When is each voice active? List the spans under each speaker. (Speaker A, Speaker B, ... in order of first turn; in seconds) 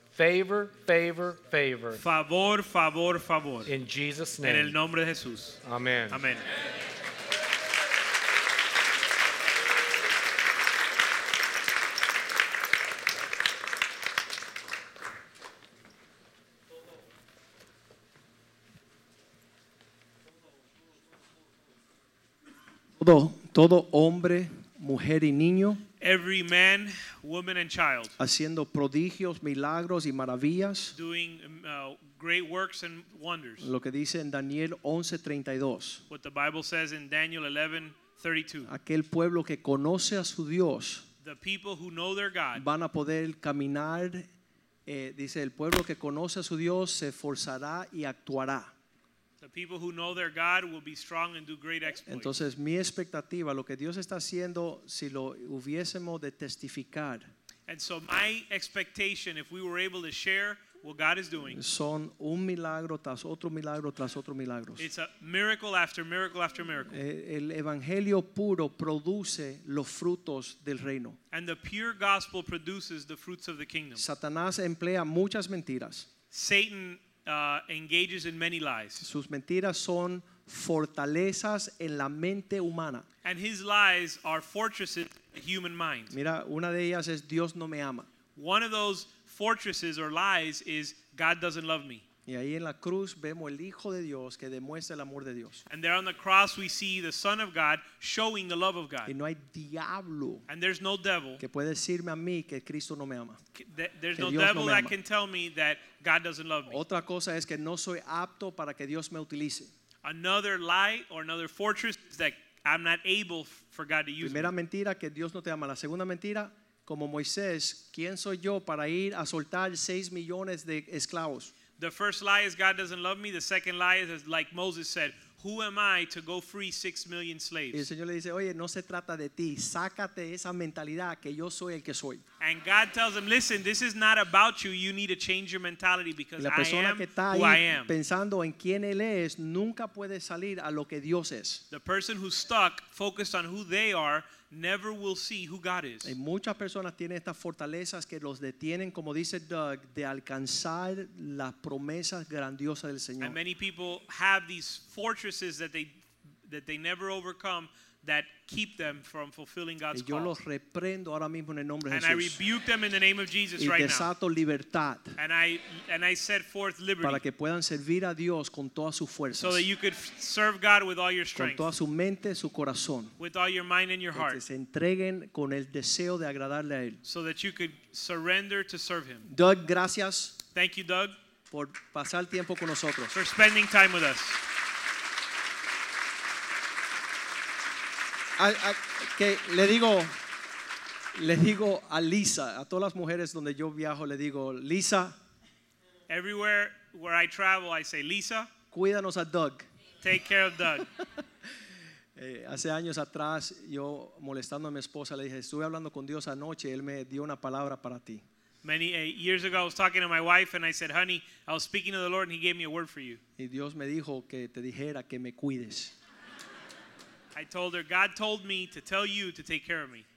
Speaker A: 0.1-2.0, 3.7-4.8, 5.6-6.2
Speaker B: 2.0-3.7, 4.4-6.4, 26.0-28.2, 30.9-33.7, 36.1-38.7, 41.2-42.6, 49.4-52.3, 57.7-61.6, 64.8-67.0, 71.3-74.0, 76.3-79.0, 83.2-86.2, 88.3-92.0, 95.7-99.1, 100.5-101.4, 103.5-106.8, 110.0-114.5, 121.8-127.9, 132.4-137.9, 141.7-146.2, 153.2-160.4, 161.9-164.1, 165.2-167.2, 169.4-171.7, 173.2-174.4, 177.0-179.3, 180.5-181.1, 183.1-184.4, 196.1-198.5, 200.0-200.9, 208.6-213.2, 217.3-220.0
Speaker C: 23.0-25.8, 28.2-30.9, 33.6-36.0, 38.6-41.1, 42.5-44.3, 44.9-48.7, 52.1-57.3, 61.5-64.9, 66.9-71.2, 74.0-76.1, 79.0-83.1, 86.1-88.1, 92.2-95.6, 99.0-100.5, 101.4-103.4, 104.2-104.9, 106.7-109.7, 114.2-121.5, 127.7-132.2, 136.4-141.6, 146.0-153.4, 159.9-162.4, 163.6-165.2, 167.0-169.7, 171.3-173.2, 174.1-177.0, 179.3-180.4, 181.5-183.2, 188.4-190.2, 191.1-195.2, 198.7-199.6, 202.2-208.2, 213.4-215.9